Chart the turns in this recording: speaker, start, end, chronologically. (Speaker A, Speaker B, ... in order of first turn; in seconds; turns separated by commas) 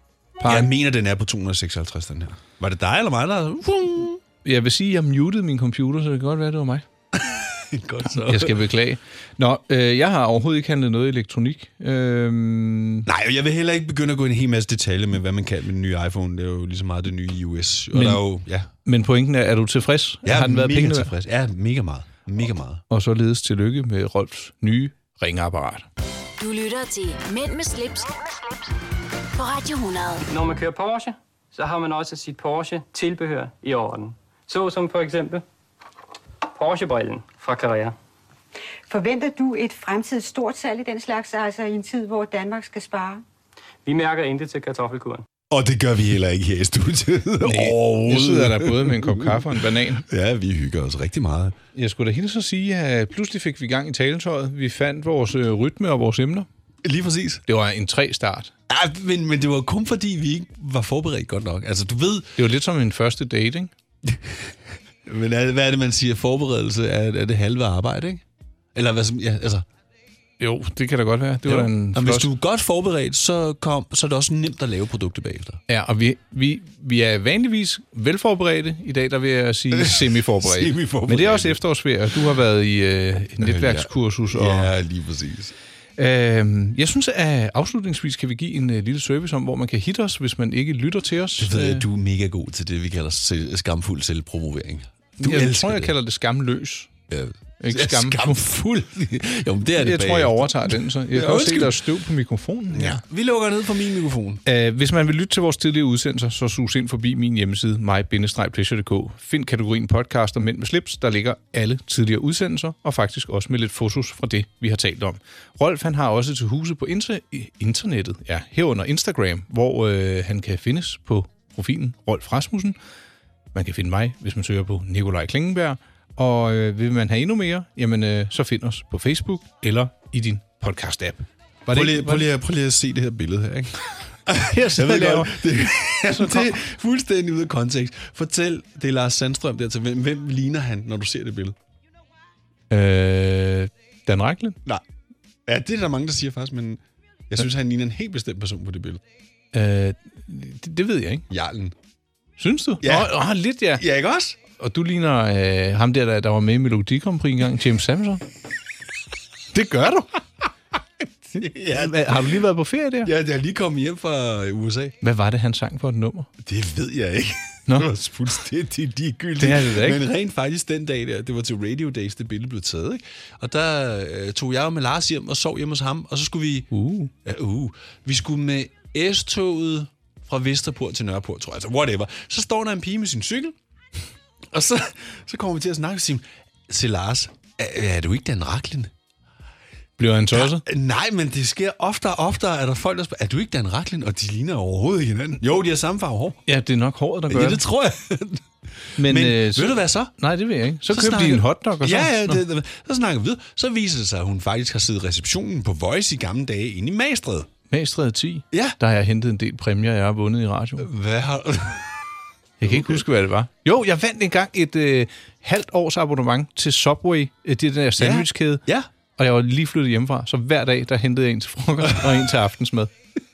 Speaker A: 0.4-0.7, Speaker B: 0.4-4.2, Speaker A: 4.4-6.8, Speaker B: 7.1-8.6, Speaker A: 8.2-13.1, Speaker B: 13.1-18.7, Speaker A: 17.9-18.2, Speaker A: 18.8-21.1, Speaker B: 20.2-22.8, Speaker A: 22.9-25.9, Speaker C: 26.4-28.2, Speaker C: 29.4-30.2, Speaker D: 30.3-35.4, Speaker D: 36.5-37.9, Speaker E: 38.9-43.2, Speaker D: 43.8-45.2, Speaker B: 45.5-51.6, Speaker A: 47.4-50.0, Speaker A: 51.7-56.5, Speaker B: 56.8-57.4, Speaker A: 57.5-58.5, Speaker B: 58.7-62.3, Speaker A: 62.4-63.7, Speaker B: 64.0-64.5, Speaker B: 65.0-68.2, Speaker B: 68.7-69.7, Speaker A: 70.4-72.3, Speaker B: 71.4-75.6, Speaker A: 75.7-84.7, Speaker B: 79.7-81.6, Speaker B: 83.4-85.5, Speaker A: 86.0-91.8, Speaker B: 91.4-95.9, Speaker A: 95.2-96.9, Speaker B: 97.1-101.8, Speaker A: 97.6-98.5, Speaker A: 99.8-103.0, Speaker B: 102.7-104.4, Speaker A: 104.4-122.8, Speaker A: 123.5-132.3, Speaker B: 131.7-141.6, Speaker A: 134.4-136.6, Speaker A: 142.7-144.6, Speaker B: 145.4-149.0, Speaker A: 149.5-151.2, Speaker B: 151.3-151.7, Speaker A: 152.4-153.8, Speaker B: 152.8-153.1, Speaker B: 153.8-154.4, Speaker A: 154.6-158.2, Speaker A: 159.5-160.2, Speaker B: 161.3-162.4, Speaker A: 161.7-163.1, Speaker B: 163.0-164.9, Speaker A: 165.0-166.3, Speaker B: 166.4-176.7, Speaker A: 169.4-170.0, Speaker A: 176.7-177.1, Speaker B: 177.2-183.5, Speaker B: 184.5-188.9, Speaker A: 190.0-190.6, Speaker B: 190.3-196.4, Speaker A: 196.4-197.6, Speaker B: 197.3-198.4, Speaker B: 199.0-200.1, Speaker A: 199.0-202.4, Speaker B: 200.9-207.5, Speaker A: 207.7-210.9, Speaker B: 208.5-208.8, Speaker B: 210.8-212.0, Speaker A: 212.6-218.6, Speaker B: 212.6-213.0, Speaker B: 218.0-218.9, Speaker A: 219.2-222.9, Speaker B: 221.8-222.2